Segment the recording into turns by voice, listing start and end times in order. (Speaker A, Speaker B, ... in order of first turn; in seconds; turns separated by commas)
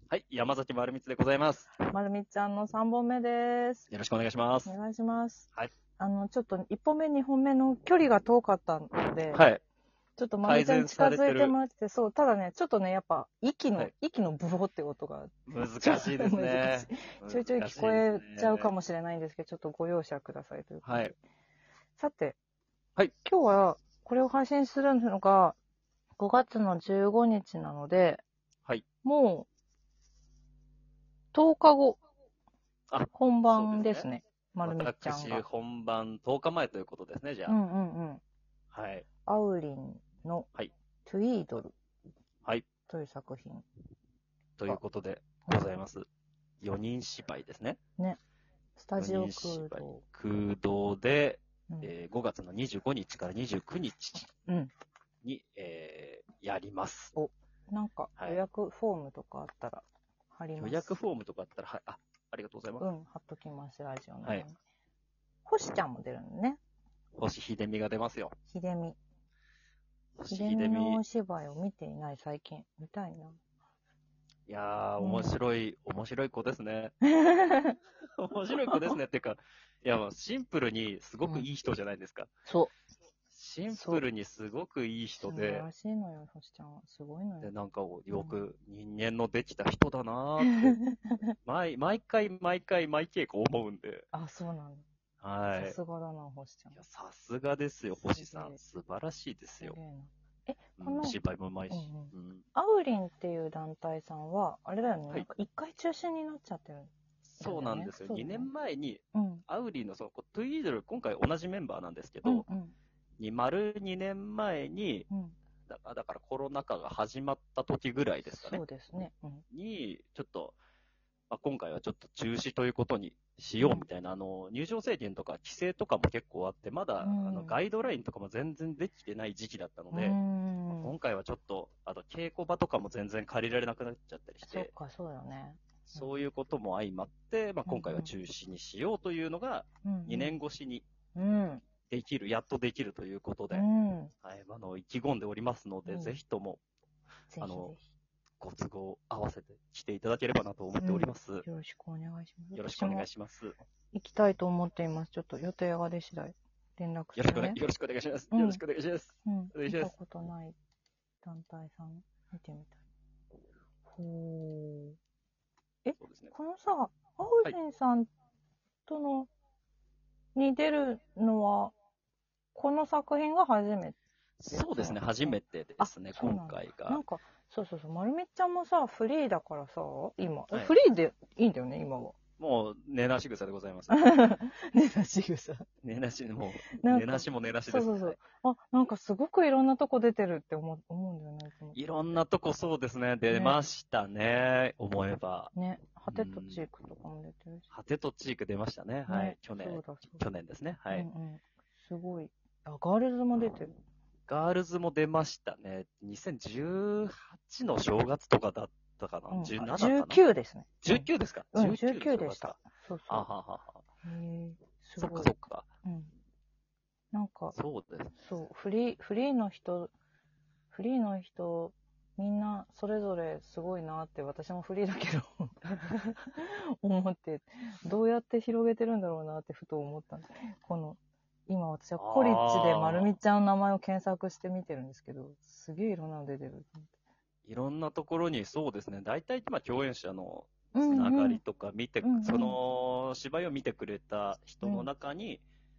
Speaker A: 0.1-1.9, Speaker B: 1.9-3.9, Speaker A: 3.9-4.7, Speaker B: 4.7-9.4, Speaker A: 9.3-9.6, Speaker B: 10.2-21.2, Speaker A: 10.4-11.6, Speaker A: 15.5-18.7, Speaker A: 20.9-21.1, Speaker B: 22.0-22.4, Speaker B: 23.2-25.6, Speaker B: 26.2-28.2, Speaker B: 29.0-29.5, Speaker B: 31.3-32.0, Speaker A: 32.9-34.1, Speaker B: 33.1-35.4, Speaker A: 34.6-37.6, Speaker B: 37.5-38.2, Speaker A: 38.7-39.0, Speaker B: 39.3-40.5, Speaker B: 41.0-41.7, Speaker B: 42.9-43.7, Speaker A: 44.6-46.1, Speaker A: 46.6-47.8, Speaker B: 48.8-50.0, Speaker A: 49.0-54.3, Speaker B: 54.5-54.7, Speaker A: 55.2-57.1, Speaker B: 57.1-61.0, Speaker A: 60.6-62.9, Speaker B: 62.8-64.6, Speaker B: 65.5-66.6, Speaker A: 67.2-68.3, Speaker B: 68.5-69.0, Speaker A: 70.2-71.0, Speaker B: 70.3-73.4, Speaker A: 74.5-76.9, Speaker B: 75.0-75.3, Speaker B: 77.0-77.8, Speaker A: 78.2-82.3, Speaker B: 78.6-79.0, Speaker B: 82.5-82.7, Speaker A: 83.3-85.7, Speaker B: 83.7-84.0, Speaker B: 85.2-87.5, Speaker A: 87.4-90.8, Speaker B: 88.1-88.4, Speaker B: 90.4-91.2, Speaker A: 91.5-94.1, Speaker B: 94.1-94.9, Speaker A: 95.2-95.8, Speaker B: 95.5-96.8, Speaker A: 96.7-99.8, Speaker B: 98.1-98.6, Speaker B: 99.6-101.2, Speaker A: 100.8-102.4, Speaker B: 101.7-108.5, Speaker A: 107.2-112.5, Speaker B: 109.1-109.4, Speaker B: 112.2-112.8, Speaker A: 113.2-115.1, Speaker B: 115.1-115.3, Speaker A: 115.7-118.6, Speaker B: 118.3-119.4, Speaker A: 119.5-120.6, Speaker A: 121.3-130.2, Speaker B: 123.6-123.9, Speaker B: 127.0-127.6, Speaker B: 129.9-130.9, Speaker A: 130.7-134.7, Speaker B: 134.4-136.1, Speaker A: 135.9-140.8, Speaker B: 137.7-138.1, Speaker B: 139.8-140.4, Speaker B: 141.2-141.6, Speaker A: 141.9-143.7, Speaker B: 143.5-144.1, Speaker A: 144.2-146.6, Speaker B: 145.9-146.2, Speaker B: 147.3-147.8, Speaker A: 147.4-147.8, Speaker A: 148.4-151.5, Speaker B: 150.8-153.1, Speaker A: 152.5-153.6, Speaker B: 153.9-157.6, Speaker A: 157.2-159.9, Speaker B: 158.3-158.6, Speaker B: 159.2-160.6, Speaker B: 161.2-162.8, Speaker B: 163.9-165.0, Speaker B: 165.8-168.1, Speaker A: 166.0-166.3, Speaker B: 168.9-169.3, Speaker B: 170.3-171.7, Speaker B: 172.5-174.0, Speaker A: 174.4-177.0, Speaker B: 174.5-182.2, Speaker A: 182.4-184.1, Speaker B: 183.9-185.7, Speaker A: 185.8-188.2, Speaker B: 186.8-192.2, Speaker A: 191.7-195.5, Speaker B: 193.3-193.6, Speaker B: 195.5-197.7, Speaker A: 196.1-196.7, Speaker A: 197.7-201.1, Speaker B: 199.1-200.2, Speaker B: 200.9-203.7, Speaker A: 204.3-210.2, Speaker B: 209.3-213.3, Speaker A: 210.8-212.6, Speaker A: 213.1-213.8, Speaker B: 214.0-216.1, Speaker A: 215.0-215.7, Speaker B: 217.1-217.6, Speaker A: 217.6-218.2, Speaker B: 218.2-219.9, Speaker B: 220.7-236.9, Speaker A: 232.0-233.2, Speaker A: 237.5-245.4, Speaker B: 240.7-241.4, Speaker B: 242.0-242.6, Speaker B: 244.6-244.9